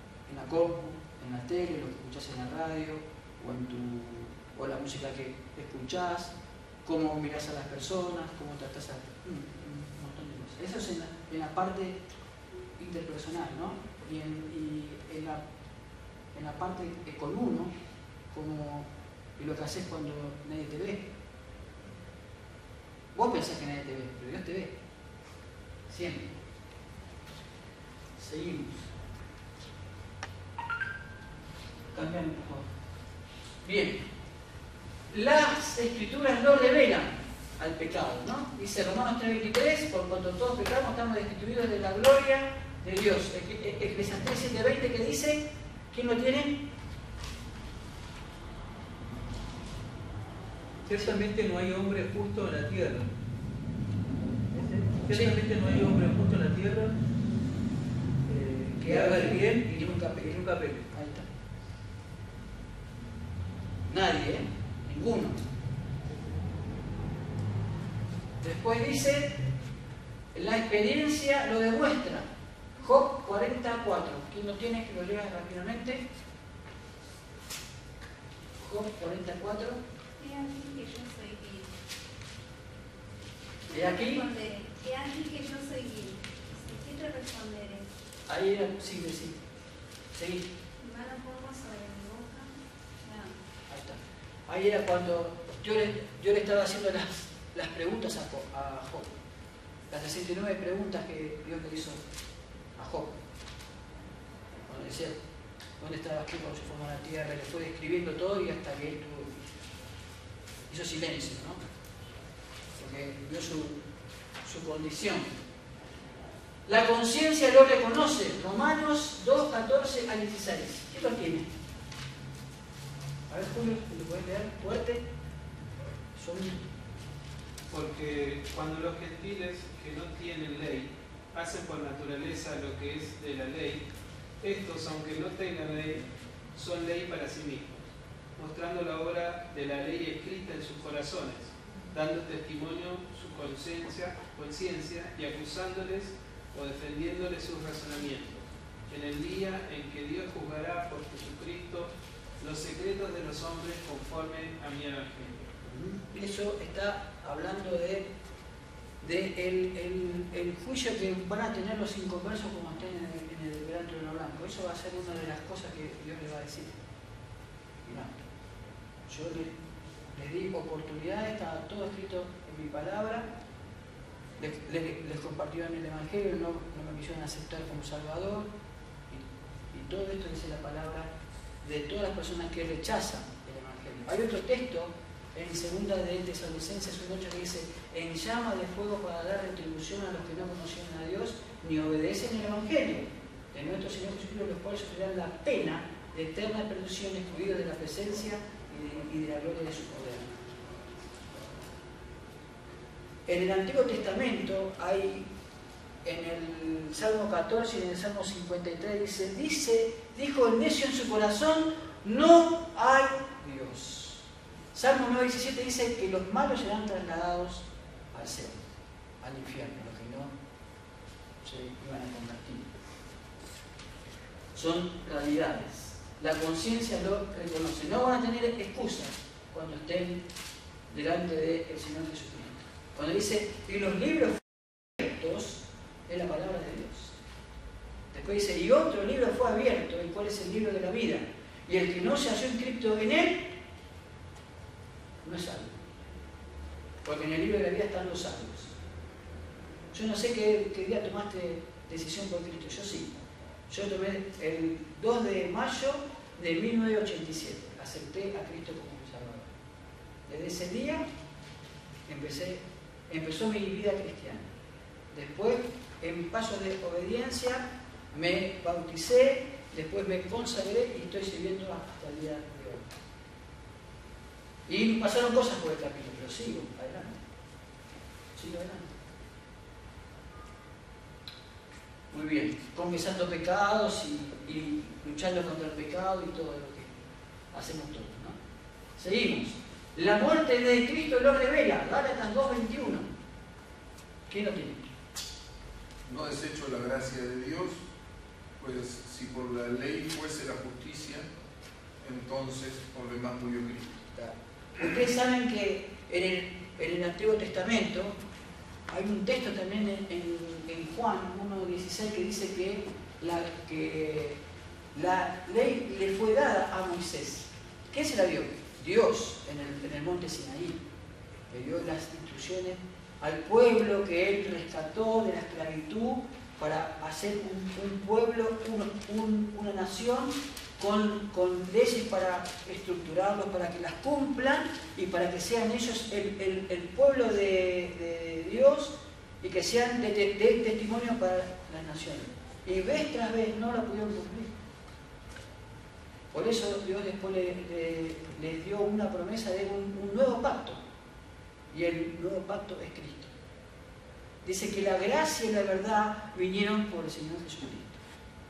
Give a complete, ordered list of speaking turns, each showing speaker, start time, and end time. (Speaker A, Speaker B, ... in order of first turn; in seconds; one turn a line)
Speaker A: 0.3-6.3
Speaker A: 6.8-12.0
Speaker A: 12.8-15.4
Speaker A: 16.3-17.7
Speaker A: 18.3-21.1
Speaker A: 23.1-24.7
Speaker A: 25.9-26.3
Speaker A: 28.2-28.8
Speaker A: 31.9-32.6
Speaker A: 33.6-34.0
Speaker A: 35.1-46.6
Speaker B: 50.9-53.1
Speaker B: 54.5-57.0
Speaker A: 55.1-55.8
Speaker B: 58.3-60.9
Speaker A: 58.8-61.2
Speaker A: 63.9-65.4
Speaker A: 68.4-69.4
Speaker A: 70.3-76.0
Speaker A: 78.6-79.8
Speaker C: 80.2-81.7
Speaker C: 83.7-87.9
Speaker A: 83.7-84.2
Speaker A: 88.3-89.4
Speaker A: 90.1-90.5
Speaker C: 90.8-93.3
Speaker A: 93.7-99.1
Speaker A: 99.9-102.0
Speaker A: 102.8-103.2
Speaker A: 104.7-105.2
Speaker A: 105.8-109.4
Speaker A: 110.7-111.6
Speaker A: 112.8-113.8
Speaker A: 114.4-115.3
Speaker A: 116.7-121.5
Speaker A: 123.3-125.0
Speaker A: 126.2-126.6
Speaker D: 127.7-133.8
Speaker D: 134.4-137.8
Speaker D: 138.4-155.4
Speaker A: 155.6-158.1
Speaker A: 159.0-166.8
Speaker A: 167.8-168.2
Speaker A: 169.1-169.5
Speaker A: 170.1-173.2
Speaker A: 174.4-178.5
Speaker A: 179.1-181.1
Speaker A: 181.6-200.3
Speaker A: 203.2-205.3
Speaker A: 206.0-218.6
Speaker A: 219.2-220.3
Speaker A: 221.4-222.7
Speaker A: 224.5-230.2
Speaker A: 230.9-237.1
Speaker A: 238.1-243.5
Speaker A: 245.2-245.8
Speaker A: 247.0-248.7
Speaker A: 249.9-253.2
Speaker A: 253.7-259.5
Speaker A: 260.3-261.0
Speaker A: 262.1-264.5
Speaker A: 265.1-272.9
Speaker A: 274.7-277.2
Speaker A: 278.4-278.9
Speaker A: 282.1-286.9
Speaker A: 287.5-288.4
Speaker A: 289.0-293.1
Speaker A: 294.3-294.8
Speaker E: 296.1-297.8
Speaker E: 298.6-301.2
Speaker E: 302.0-304.0
Speaker A: 304.1-308.1
Speaker A: 308.9-314.4
Speaker A: 314.9-320.8
Speaker A: 321.5-344.5
Speaker A: 346.3-350.8
Speaker A: 351.7-353.3
Speaker A: 354.4-358.0